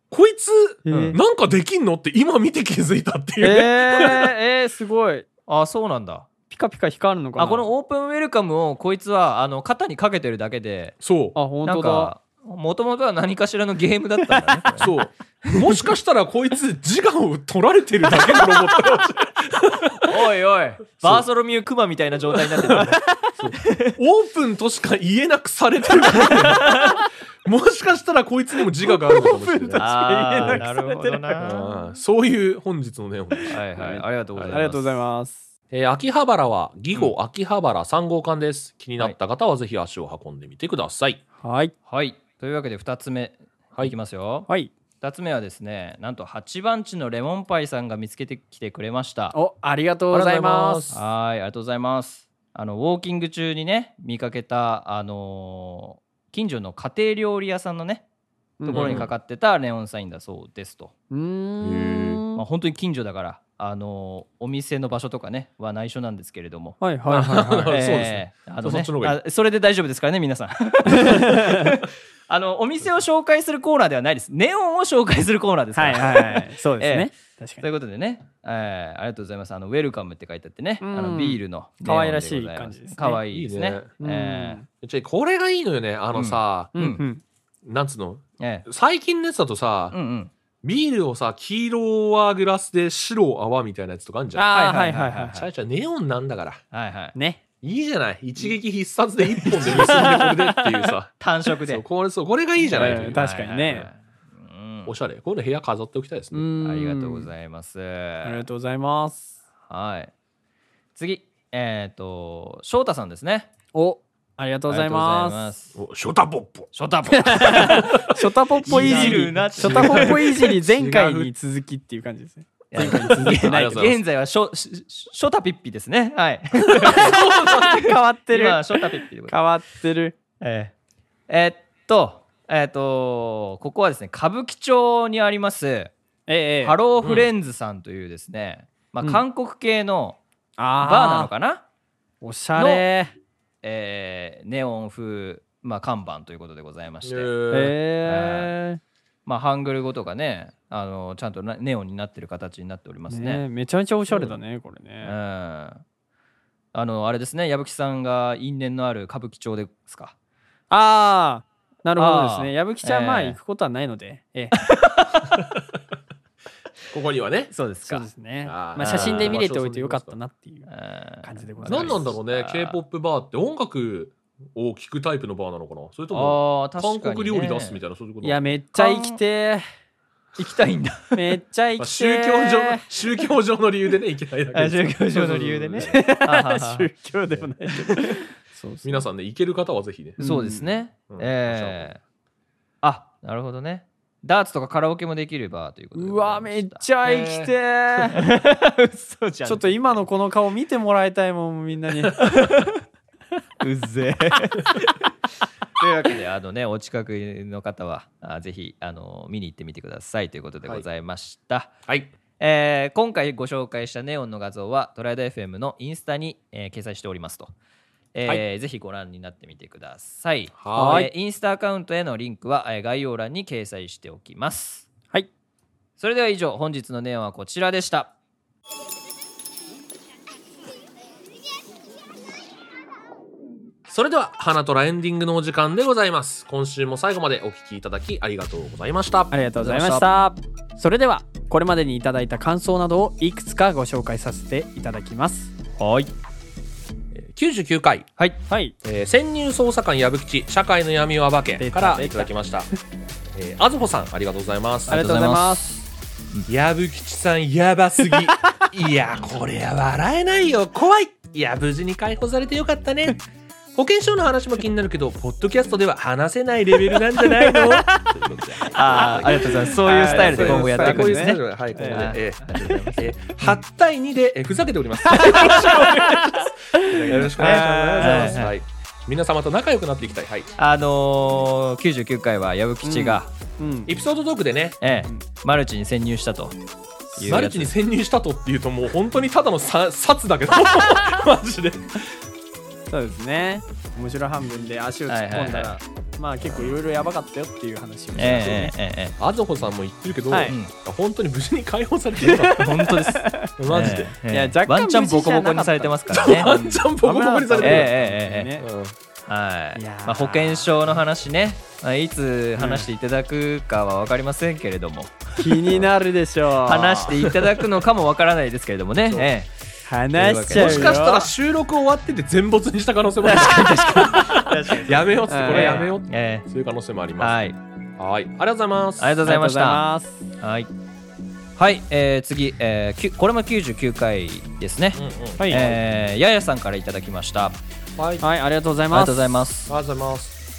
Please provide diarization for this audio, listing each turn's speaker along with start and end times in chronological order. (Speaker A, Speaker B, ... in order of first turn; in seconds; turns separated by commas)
Speaker A: 0.1-4.3, Speaker B: 0.8-1.2, Speaker C: 0.9-1.2, Speaker B: 3.4-5.2, Speaker C: 5.5-6.3, Speaker B: 6.5-7.7, Speaker C: 7.4-11.0, Speaker A: 11.0-11.4, Speaker B: 11.3-12.1, Speaker C: 11.6-14.9, Speaker A: 14.8-20.1, Speaker C: 15.4-15.8, Speaker C: 20.0-23.9, Speaker A: 22.5-30.6, Speaker B: 28.9-31.9, Speaker C: 29.8-31.5, Speaker A: 31.4-33.6, Speaker B: 33.3-35.5, Speaker C: 33.5-35.0, Speaker A: 35.7-41.2, Speaker B: 41.4-41.7, Speaker C: 41.9-44.5, Speaker C: 45.0-49.4, Speaker B: 49.3-50.9, Speaker A: 50.1-51.0, Speaker C: 50.9-58.0, Speaker B: 58.6-59.0, Speaker C: 58.6-60.9, Speaker A: 58.7-59.1, Speaker B: 61.1-62.4, Speaker A: 61.6-62.2, Speaker C: 62.3-66.8, Speaker B: 66.8-67.8, Speaker A: 67.1-69.2, Speaker C: 67.7-84.6, Speaker B: 70.9-71.7, Speaker B: 75.7-77.6, Speaker B: 80.8-83.2, Speaker A: 83.3-83.9, Speaker B: 84.0-84.7, Speaker A: 84.8-86.7, Speaker C: 86.1-87.0, Speaker B: 86.7-87.2, Speaker A: 87.6-90.0, Speaker C: 88.4-88.7, Speaker C: 89.9-90.3, Speaker A: 90.6-94.5, Speaker B: 94.3-95.4, Speaker C: 94.5-95.5, Speaker A: 95.3-96.6, Speaker C: 96.7-97.1, Speaker B: 97.1-97.4, Speaker A: 97.6-103.2, Speaker B: 99.4-100.6, Speaker C: 99.6-100.4, Speaker C: 101.2-101.9, Speaker C: 102.6-104.9, Speaker B: 102.7-103.9, Speaker A: 104.8-106.5, Speaker B: 106.3-107.3, Speaker C: 106.6-108.4, Speaker B: 108.2-109.3, Speaker C: 109.7-110.1, Speaker C: 111.0-113.5, Speaker B: 113.7-115.5, Speaker C: 114.7-115.8, Speaker A: 115.7-116.7, Speaker C: 116.7-118.0, Speaker B: 117.2-124.0, Speaker A: 117.6-121.3, Speaker C: 118.6-120.4, Speaker C: 122.7-127.7, Speaker A: 122.8-124.0, Speaker B: 126.8-130.2, Speaker A: 126.8-127.9, Speaker C: 128.3-129.4, Speaker C: 130.4-130.7, Speaker C: 131.3-135.9, Speaker B: 136.3-136.8, Speaker C: 136.6-140.2, Speaker A: 137.0-137.3, Speaker B: 140.6-141.3, Speaker C: 140.8-141.6, Speaker B: 142.2-143.1, Speaker C: 142.6-142.8, Speaker C: 143.6-147.3, Speaker A: 147.0-147.8, Speaker B: 147.5-148.8, Speaker C: 148.1-148.5, Speaker C: 149.2-153.4, Speaker B: 153.1-155.1, Speaker C: 155.0-155.8, Speaker C: 156.7-160.1, Speaker B: 160.7-164.6, Speaker C: 161.9-163.4, Speaker C: 164.5-165.4, Speaker A: 166.9-167.5, Speaker C: 167.5-168.1, Speaker B: 167.8-170.7, Speaker A: 168.4-170.1, Speaker C: 168.8-169.4, Speaker C: 170.7-172.8, Speaker B: 171.2-172.1, Speaker A: 171.7-178.4, Speaker C: 176.1-177.8, Speaker B: 178.2-179.6, Speaker C: 178.7-179.2, Speaker C: 180.4-181.2, Speaker B: 181.1-182.8, Speaker A: 181.8-185.9, Speaker C: 184.5-186.9, Speaker B: 185.1-189.1, Speaker A: 188.8-190.2, Speaker B: 190.2-190.7, Speaker C: 190.2-192.0, Speaker A: 191.1-191.9, Speaker C: 192.8-196.8, Speaker B: 195.9-198.2, Speaker A: 197.0-197.5, Speaker C: 198.1-200.0, Speaker B: 199.4-202.5, Speaker C: 202.2-202.8, Speaker C: 203.6-205.1, Speaker C: 205.8-211.7, Speaker A: 211.9-212.1, Speaker C: 212.4-217.5, Speaker C: 218.1-224.9, Speaker A: 220.5-221.1, Speaker B: 220.7-221.1, Speaker C: 226.0-228.1, Speaker A: 233.9-239.3, Speaker B: 239.3-245.5, Speaker C: 239.6-240.1, Speaker C: 245.8-246.1, Speaker A: 247.1-248.1, Speaker B: 248.5-248.7, Speaker A: 248.8-252.7, Speaker B: 251.6-252.3, Speaker A: 253.3-255.0, Speaker C: 254.9-255.8, Speaker B: 254.9-255.8, Speaker A: 256.5-263.2, Speaker A: 263.7-280.5, Speaker C: 268.7-273.6, Speaker B: 268.9-272.8, Speaker B: 275.1-278.5, Speaker C: 277.1-278.6, Speaker C: 280.6-283.3, Speaker B: 282.8-283.9, Speaker A: 283.9-284.8, Speaker C: 284.8-286.6, Speaker C: 287.1-287.7, Speaker A: 287.2-292.2, Speaker B: 292.9-298.7, Speaker C: 295.1-295.8, Speaker A: 296.4-296.7, Speaker C: 298.1-299.1, Speaker A: 299.2-302.8, Speaker B: 300.3-300.5, Speaker B: 302.2-303.5, Speaker C: 302.5-306.5, Speaker A: 303.6-304.1, Speaker B: 304.3-308.7, Speaker A: 306.1-307.9, Speaker C: 307.6-308.5, Speaker A: 308.6-308.9, Speaker C: 309.3-315.8, Speaker B: 309.7-310.8, Speaker B: 312.6-312.9, Speaker B: 315.4-317.4, Speaker C: 316.6-319.5, Speaker B: 319.9-321.3, Speaker C: 320.1-321.0, Speaker A: 320.5-329.1, Speaker C: 323.2-326.4, Speaker B: 325.3-325.9, Speaker C: 327.2-327.6, Speaker C: 329.0-329.8, Speaker B: 329.2-330.2, Speaker C: 330.4-330.7, Speaker C: 331.6-337.6, Speaker A: 334.9-335.8, Speaker B: 335.4-335.7, Speaker A: 338.0-338.2, Speaker B: 338.2-339.2, Speaker C: 338.9-339.7, Speaker A: 339.7-340.4